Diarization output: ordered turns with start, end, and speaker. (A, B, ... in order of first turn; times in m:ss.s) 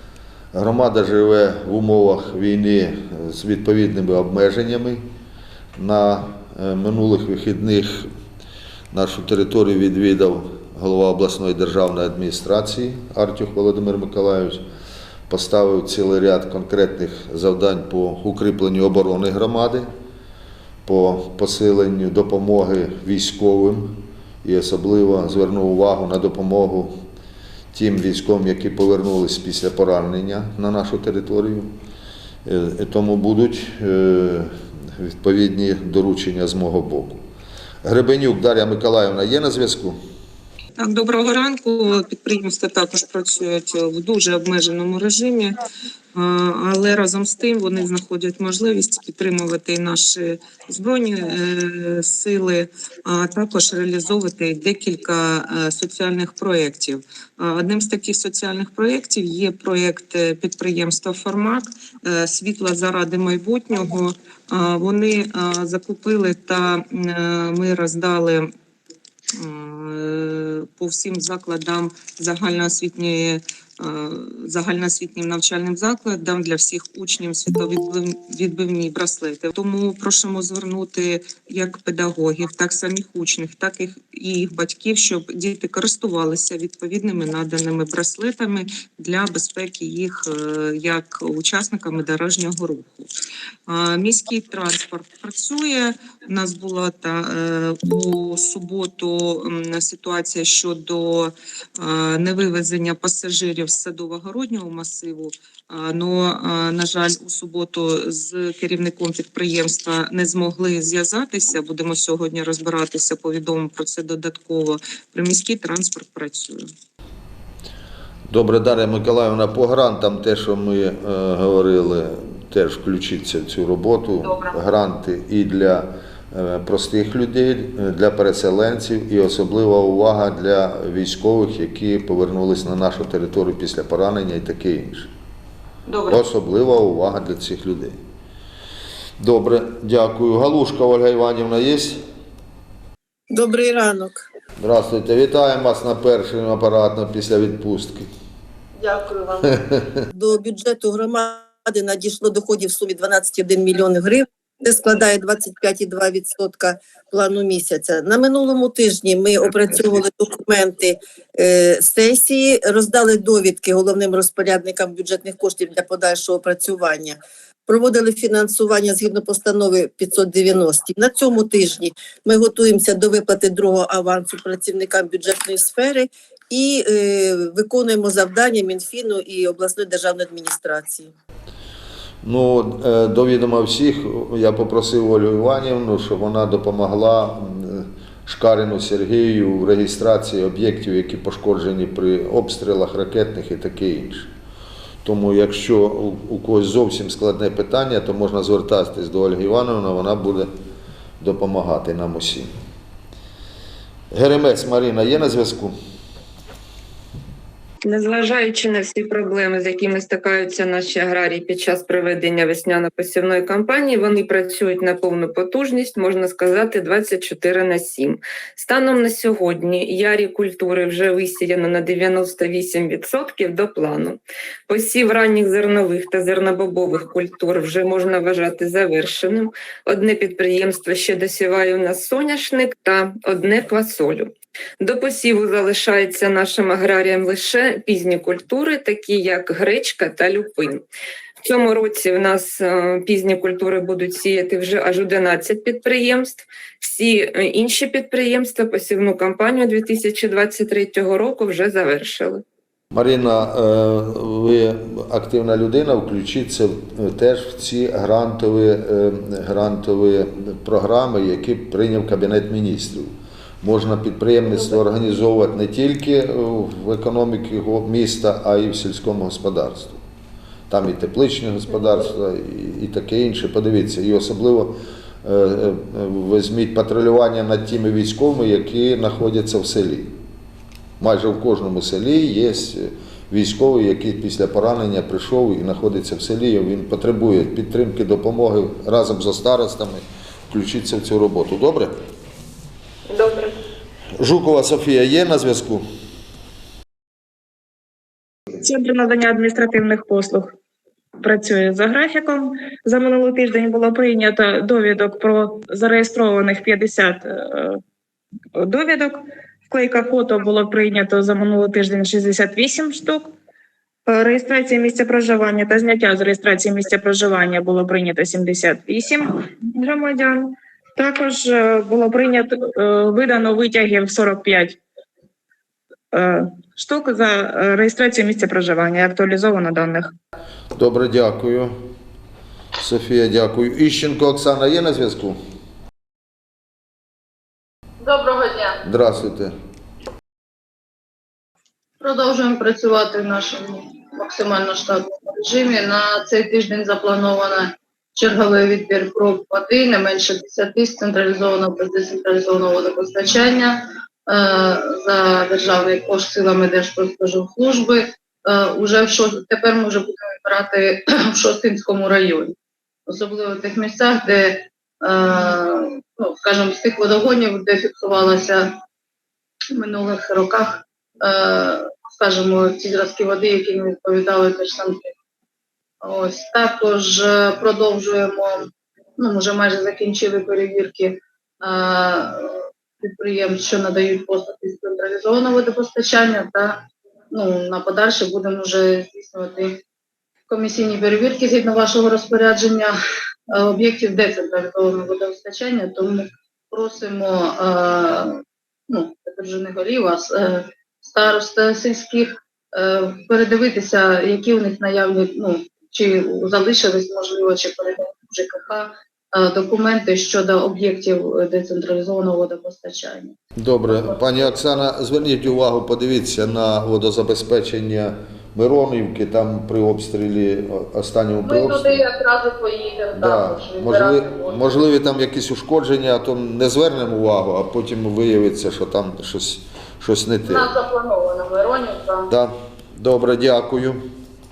0:00.5-0:05.0 A
0:05.8-0:08.1 A
0:08.9-0:14.6 A
0:15.3-0:19.9 A
0:20.9-0:27.0 A
0:27.7-0:31.8 A
0:32.4-0:37.2 A
0:37.8-0:40.0 A
0:40.8-0:45.6 B
0:46.1-1:08.5 B
1:09.4-1:33.1 B
1:33.7-1:56.7 B
1:58.3-2:15.1 A
2:04.2-2:04.5 B
2:15.9-2:16.2 B
2:16.1-2:18.0 A
2:19.2-2:22.0 A
2:23.3-2:24.2 C
2:24.6-2:28.1 A
2:28.8-2:29.6 C
2:30.1-3:01.1 C
3:02.2-3:14.3 A
3:15.0-3:20.5 A
3:21.2-3:22.5 A
3:24.1-3:25.8 A
3:27.8-4:00.8 D
4:01.4-4:12.4 D
4:12.9-4:30.0 A
4:30.7-4:40.2 A
4:41.0-4:52.0 A
4:54.2-4:55.8 A
4:58.6-5:00.5 E
5:01.2-5:07.8 E
5:08.6-5:13.3 E
5:14.1-5:24.8 E
5:26.1-5:30.1 E
5:30.8-5:31.8 A
5:32.8-5:35.4 A
5:38.0-5:38.8 F
5:38.8-5:39.6 A
5:42.0-6:02.6 F
6:03.1-6:08.8 F
6:09.7-6:15.1 F
6:16.0-6:29.8 F
6:30.5-6:33.0 F
6:33.5-6:53.4 F
6:53.6-7:02.0 A
6:53.9-6:54.6 F
7:01.4-7:04.7 F
7:03.2-7:10.7 A
7:10.4-7:12.3 F
7:12.3-7:14.1 A